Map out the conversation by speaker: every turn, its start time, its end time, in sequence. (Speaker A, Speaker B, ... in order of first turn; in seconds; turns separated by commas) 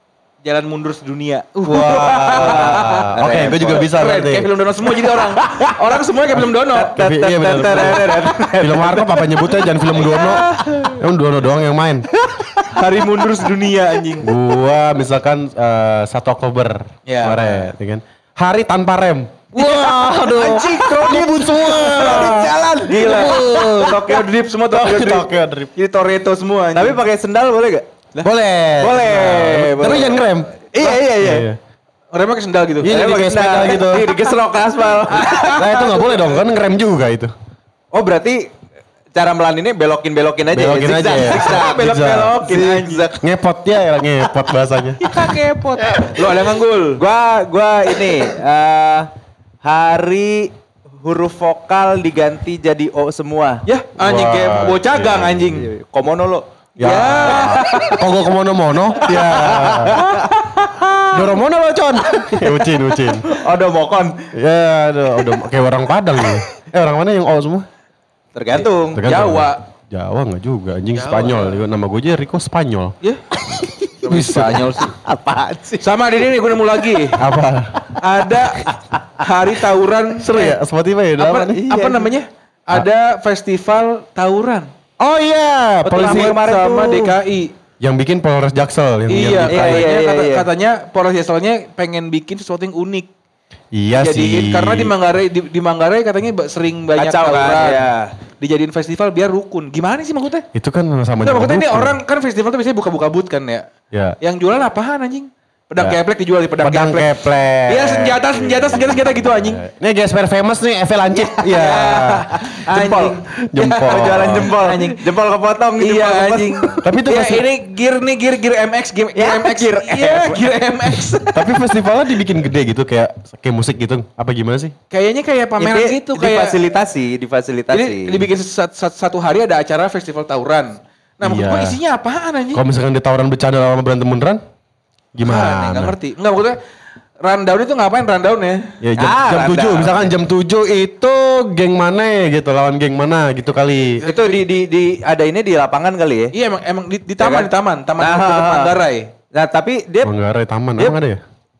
Speaker A: 0.4-7.0, Speaker B: 1.6-4.5, Speaker C: 2.4-3.9, Speaker C: 4.8-6.0, Speaker B: 6.3-12.1, Speaker C: 6.8-9.5, Speaker A: 7.7-8.5, Speaker A: 9.7-11.0, Speaker C: 12.1-13.5, Speaker A: 12.7-14.3, Speaker B: 14.2-24.1, Speaker A: 17.1-17.7, Speaker A: 19.5-27.0, Speaker C: 19.6-24.3, Speaker B: 24.6-25.7, Speaker C: 26.7-27.8, Speaker B: 28.2-30.6, Speaker C: 28.8-30.2, Speaker A: 30.7-31.2, Speaker C: 30.7-31.5, Speaker B: 31.2-31.6, Speaker A: 32.1-33.1, Speaker B: 32.8-34.1, Speaker C: 32.8-35.8, Speaker A: 33.7-34.3, Speaker A: 34.9-36.5, Speaker B: 35.5-37.3, Speaker C: 37.9-38.4, Speaker C: 39.1-43.2, Speaker B: 40.5-42.5, Speaker A: 41.3-43.1, Speaker B: 43.2-45.1, Speaker A: 45.0-47.0, Speaker C: 45.8-46.1, Speaker C: 47.0-49.1, Speaker C: 49.6-53.6, Speaker A: 53.6-55.7, Speaker B: 54.0-55.6, Speaker C: 55.5-56.4, Speaker B: 56.8-60.1, Speaker A: 56.8-58.1, Speaker C: 57.2-57.6, Speaker C: 59.0-61.0, Speaker A: 60.0-60.6, Speaker B: 61.1-63.3, Speaker C: 62.4-64.3, Speaker B: 64.3-67.7, Speaker C: 68.3-69.0, Speaker A: 68.5-69.6, Speaker B: 68.9-72.9, Speaker A: 70.9-71.6, Speaker C: 73.5-75.8, Speaker A: 74.0-74.9, Speaker B: 74.1-74.7, Speaker A: 75.8-77.3, Speaker B: 77.1-77.9, Speaker A: 78.0-80.6, Speaker C: 78.3-79.0, Speaker B: 80.2-81.6, Speaker A: 81.2-84.7, Speaker C: 81.5-82.1, Speaker B: 85.0-86.3, Speaker C: 85.0-87.2, Speaker A: 85.8-87.5, Speaker B: 87.8-89.9, Speaker A: 89.1-93.1, Speaker C: 89.4-90.5, Speaker B: 93.7-95.0, Speaker A: 93.9-100.5, Speaker C: 97.0-98.1, Speaker B: 100.5-102.0, Speaker A: 101.2-103.7, Speaker B: 103.9-104.2, Speaker A: 104.2-109.6, Speaker B: 106.6-112.3, Speaker A: 111.2-115.1, Speaker C: 112.5-113.2, Speaker B: 113.5-114.5, Speaker C: 113.8-116.8, Speaker A: 115.8-121.7, Speaker B: 116.8-117.5, Speaker C: 119.1-120.9, Speaker B: 121.3-124.7, Speaker A: 124.9-126.7, Speaker C: 125.6-128.3, Speaker A: 127.7-132.6, Speaker B: 131.2-131.8, Speaker B: 132.5-134.4, Speaker B: 135.1-135.9, Speaker A: 135.2-136.6, Speaker A: 137.2-138.7, Speaker B: 138.8-144.0, Speaker C: 139.0-140.1, Speaker A: 144.0-144.5, Speaker C: 144.0-146.3, Speaker A: 146.3-149.1, Speaker C: 147.2-150.1, Speaker B: 150.0-151.2